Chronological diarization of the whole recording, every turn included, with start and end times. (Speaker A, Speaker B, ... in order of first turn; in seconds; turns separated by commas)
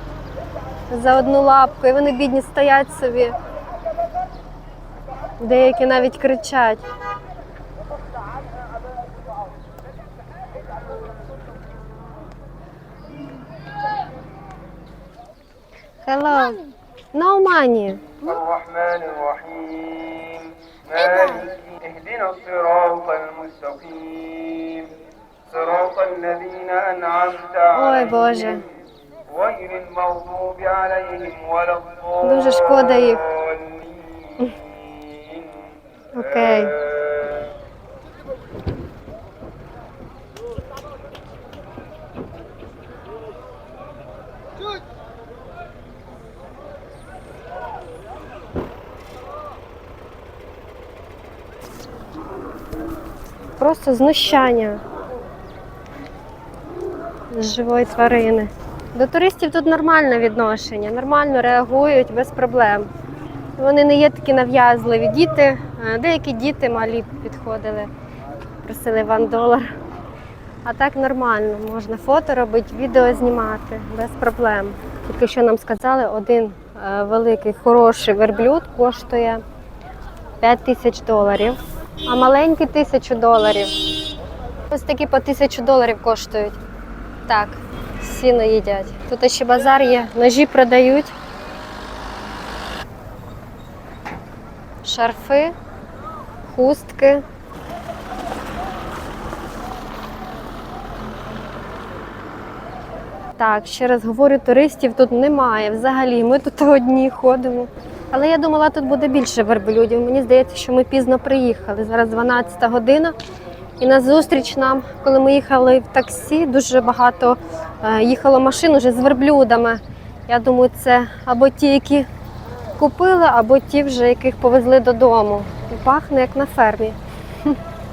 Speaker A: 0.9-3.4, Speaker A: 5.4-6.8, Speaker A: 16.0-16.6, Speaker A: 17.1-18.2, Speaker B: 18.1-24.9, Speaker A: 21.0-21.4, Speaker B: 25.5-28.6, Speaker A: 27.7-28.6, Speaker B: 29.3-33.9, Speaker A: 32.2-33.2, Speaker A: 36.1-36.7, Speaker B: 36.2-37.1, Speaker A: 53.6-54.8, Speaker A: 57.3-62.9, Speaker A: 63.6-67.9, Speaker A: 68.6-69.7, Speaker A: 70.6-79.4, Speaker A: 80.4-83.8, Speaker A: 84.7-86.6, Speaker A: 87.3-91.1, Speaker A: 94.8-95.5, Speaker A: 96.5-97.2, Speaker A: 103.4-113.1, Speaker A: 113.8-122.1, Speaker A: 122.8-127.0